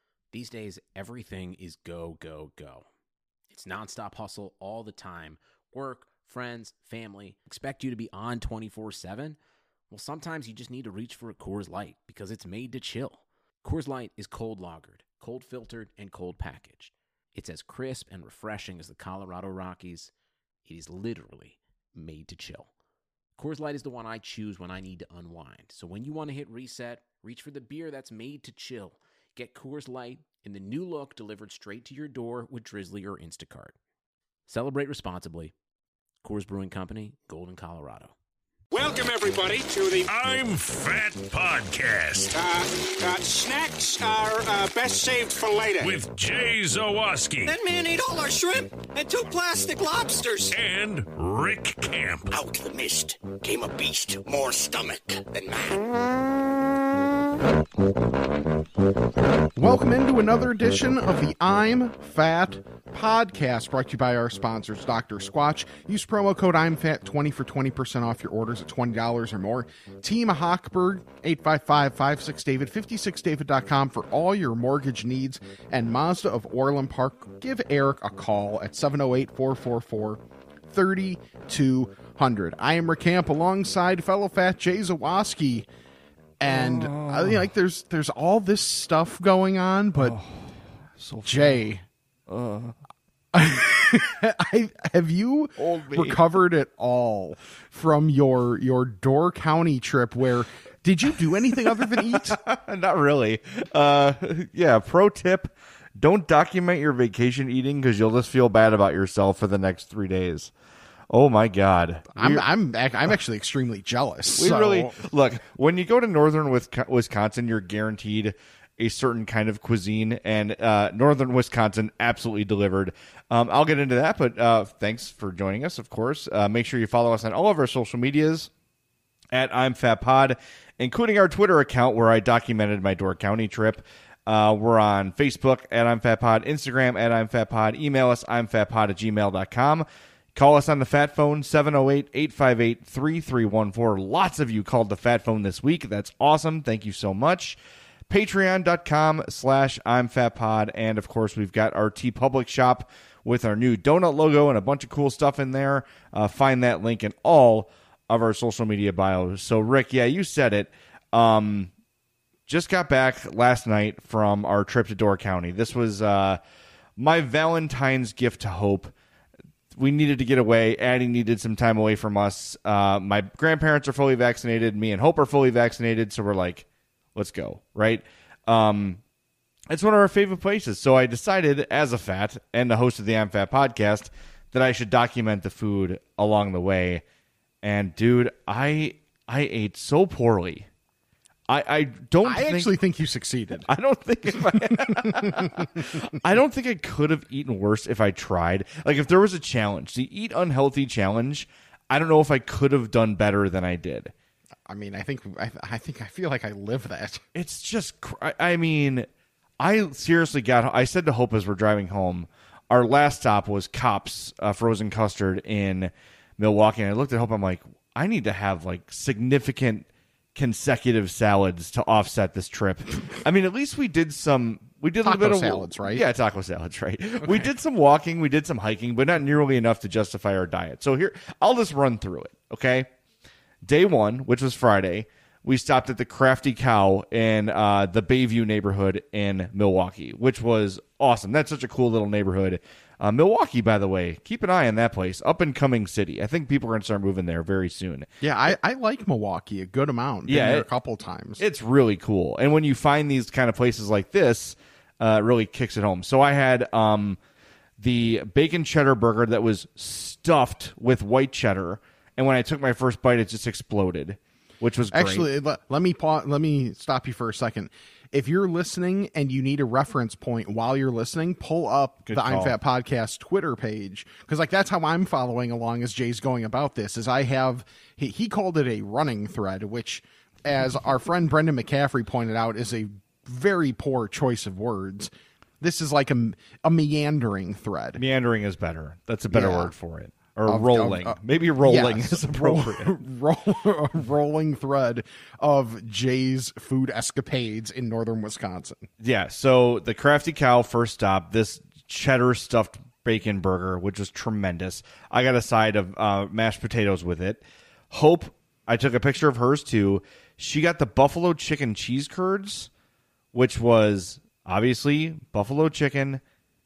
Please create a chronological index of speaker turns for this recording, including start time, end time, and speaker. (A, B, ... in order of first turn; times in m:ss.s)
0:00.3-0:02.9 A
0:03.5-0:09.4 A
0:09.9-0:20.1 A
0:20.6-0:22.7 A
0:23.4-0:33.8 A
0:34.5-0:35.5 A
0:36.2-0:38.1 A
0:38.7-0:40.1 B
0:40.1-0:42.3 C
0:42.3-0:46.0 B
0:45.8-0:47.6 C
0:47.4-0:50.5 D
0:50.5-0:52.3 C
0:52.3-0:55.8 D
0:59.6-1:20.2 E
1:20.7-1:25.6 E
1:26.4-1:30.2 E
1:26.4-1:27.5 F
1:30.0-1:31.6 F
1:31.2-1:31.8 E
1:32.3-1:32.8 F
1:33.3-1:42.4 E
1:35.6-1:36.2 F
1:41.8-1:50.5 F
1:51.1-1:52.4 F
1:52.1-1:54.9 E
1:54.4-2:08.5 F
2:09.3-2:27.6 F
2:28.1-2:41.7 F
2:42.5-2:46.4 F
2:47.0-2:48.9 F
2:49.7-2:59.0 F
2:59.7-3:07.0 F
3:07.6-3:10.7 F
3:11.5-3:12.7 F
3:12.2-3:13.7 E
3:13.7-3:24.1 F
3:14.4-3:15.7 E
3:24.6-3:27.2 E
3:27.3-3:52.9 F
3:45.0-3:46.0 E
3:47.2-3:47.5 E
3:53.6-4:08.1 F
4:08.2-4:11.4 E
4:10.2-4:10.6 F
4:11.4-4:17.2 F
4:17.8-4:25.3 F
4:24.9-4:48.0 E
4:32.0-4:32.5 F
4:48.0-4:53.0 F
4:49.3-4:49.7 E
4:50.5-4:58.9 E
4:59.0-5:12.7 F
5:13.3-5:16.2 F